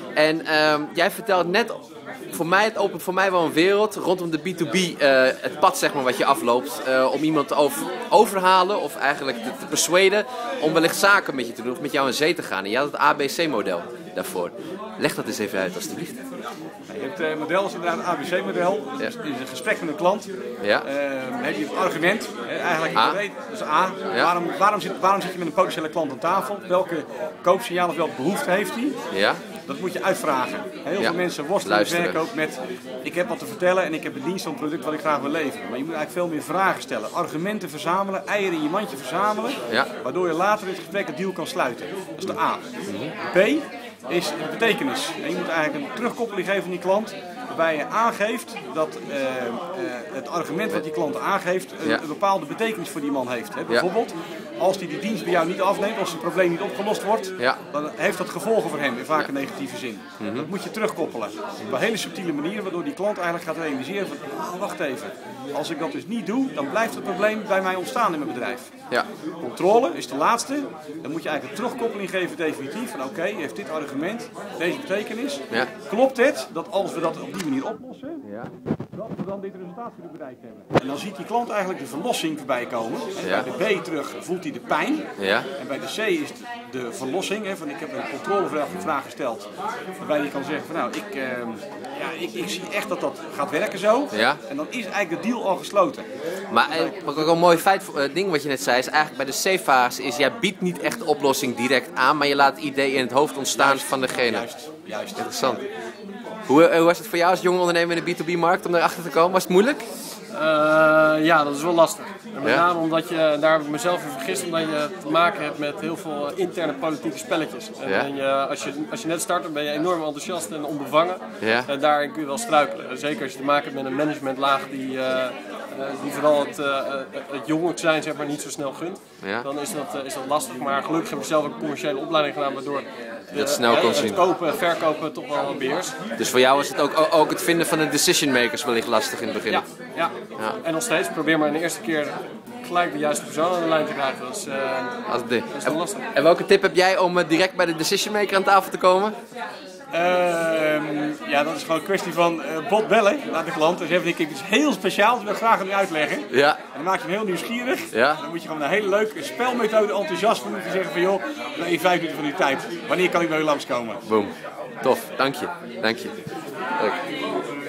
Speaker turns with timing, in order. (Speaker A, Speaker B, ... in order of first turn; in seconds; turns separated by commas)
Speaker A: 0.2-16.2, Speaker B: 16.9-20.3, Speaker B: 20.8-29.0, Speaker A: 29.1-29.4, Speaker B: 29.7-42.6, Speaker A: 31.0-32.2, Speaker A: 42.9-43.1, Speaker B: 43.2-68.7, Speaker A: 60.2-60.5, Speaker B: 69.4-78.3, Speaker A: 78.2-78.5, Speaker B: 78.9-85.1, Speaker A: 83.2-83.5, Speaker A: 85.2-85.5, Speaker B: 85.6-89.5, Speaker B: 90.0-96.1, Speaker A: 94.1-94.4, Speaker A: 96.5-104.5, Speaker B: 96.7-97.4, Speaker B: 103.5-105.6, Speaker A: 105.2-105.6, Speaker A: 106.5-109.8, Speaker C: 110.3-136.0, Speaker A: 121.4-121.7, Speaker A: 133.3-134.3, Speaker A: 136.2-139.6, Speaker C: 140.6-145.0, Speaker A: 145.1-149.2, Speaker C: 145.5-146.1, Speaker B: 149.9-164.0, Speaker A: 156.3-156.6, Speaker A: 157.9-158.2, Speaker A: 164.1-166.1